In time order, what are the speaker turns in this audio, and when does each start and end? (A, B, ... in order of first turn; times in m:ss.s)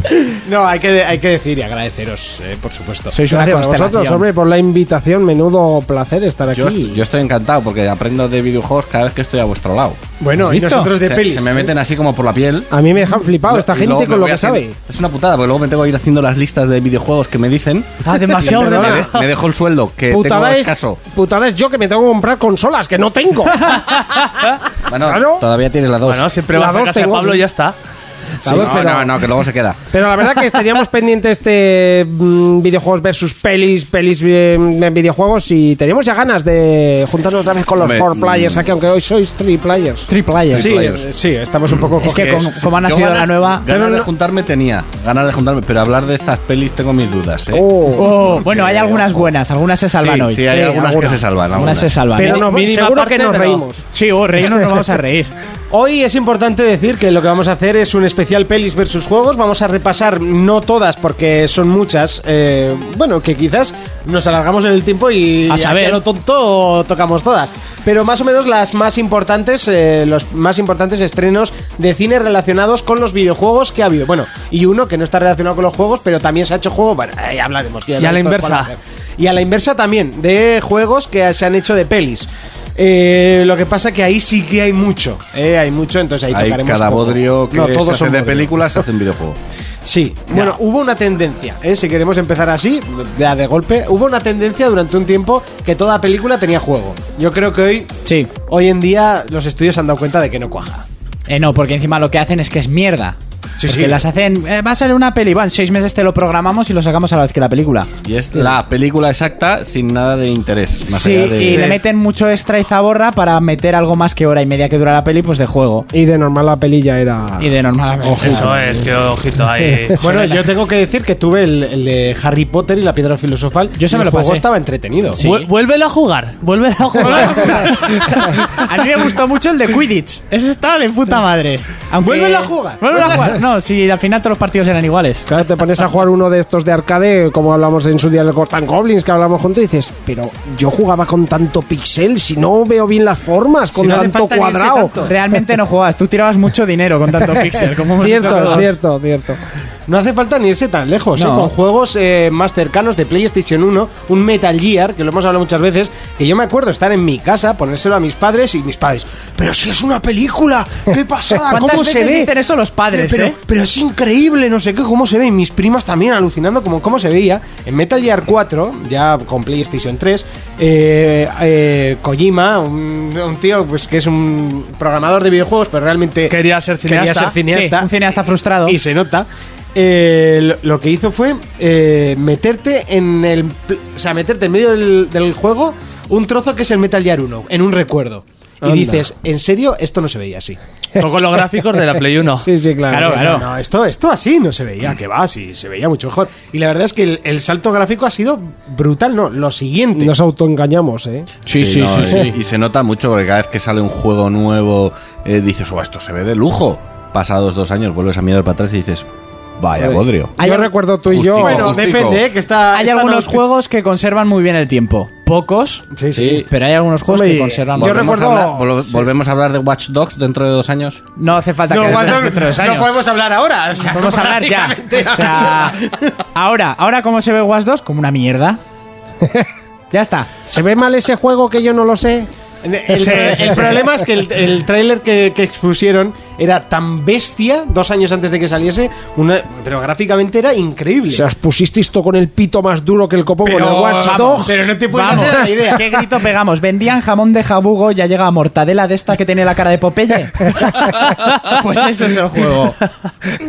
0:00.3-0:03.1 A
0:03.1-0:04.2 B
0:03.3-0:07.0 C
0:06.5-0:10.0 D
0:10.2-0:11.7 A
0:10.4-0:10.9 B
0:11.0-0:12.7 D
0:12.7-0:14.7 C
0:13.5-0:21.0 D
0:18.0-0:19.2 E
0:18.4-0:19.1 C
0:20.1-0:23.8 C
0:24.9-0:26.3 D
0:25.0-0:25.4 C
0:26.0-0:27.8 E
0:26.5-0:27.4 C
0:28.4-0:29.2 C
0:28.4-0:29.8 D
0:29.9-0:40.1 C
0:37.8-0:38.6 D
0:40.1-0:40.7 B
0:40.5-0:41.0 D
0:40.5-0:42.4 A
0:42.0-0:43.7 B
0:42.0-0:47.6 D
0:43.7-0:44.1 C
0:47.5-0:48.3 C
0:47.9-0:50.9 B
0:48.2-0:49.3 D
0:50.0-0:52.0 D
0:50.6-0:51.2 C
0:51.5-0:52.5 B
0:52.1-0:53.8 C
0:52.2-0:53.6 E
0:53.9-0:55.3 B
0:55.7-1:28.8 A
1:05.5-1:06.0 B
1:18.0-1:18.7 E
1:26.3-1:29.4 D
1:29.8-1:37.9 A
1:30.3-1:30.6 B
1:38.0-1:38.3 B
1:38.4-1:40.8 A
1:41.3-1:47.9 B
1:43.6-1:44.0 A
1:48.0-1:51.7 D
1:50.9-1:55.9 B
1:51.5-1:51.8 E
1:55.9-1:58.8 C
1:57.4-1:58.5 B
1:58.2-2:00.0 E
2:00.0-2:00.4 B
2:00.0-2:05.2 A
2:03.8-2:04.4 B
2:05.2-2:05.5 B
2:05.2-2:08.3 E
2:07.0-2:15.3 B
2:12.0-2:13.3 A
2:15.3-2:25.0 C
2:23.7-2:25.1 A
2:25.0-2:28.8 B
2:27.9-2:29.4 C
2:29.9-2:42.3 A
2:31.2-2:31.5 B
2:41.5-2:43.4 B
2:42.9-2:57.9 A
2:56.3-2:57.4 E
2:57.5-2:58.8 B
2:58.6-3:10.6 A
3:08.6-3:09.1 C
3:11.0-3:12.5 E
3:12.3-3:13.4 C
3:12.9-3:13.4 B
3:13.0-3:20.1 A
3:19.9-3:21.3 C
3:21.4-3:22.3 B
3:21.5-3:29.0 D
3:29.6-3:30.3 D
3:29.8-3:31.8 C
3:30.4-3:30.7 B
3:31.1-3:32.2 D
3:31.4-3:33.4 A
3:32.7-3:35.8 B
3:35.9-3:36.4 A
3:36.1-3:36.5 D
3:36.5-3:38.2 B
3:37.1-3:39.0 C
3:37.8-3:41.0 D
3:41.2-3:43.0 B
3:41.7-3:46.1 A
3:43.9-3:45.8 B
3:46.3-3:48.6 B
3:49.2-3:49.5 C
3:49.9-3:50.3 B
3:50.4-3:52.3 C
3:52.6-4:01.2 A
3:52.9-3:53.9 C
3:53.2-3:53.6 B
4:01.1-4:05.2 C
4:03.4-4:06.0 A
4:04.0-4:12.8 B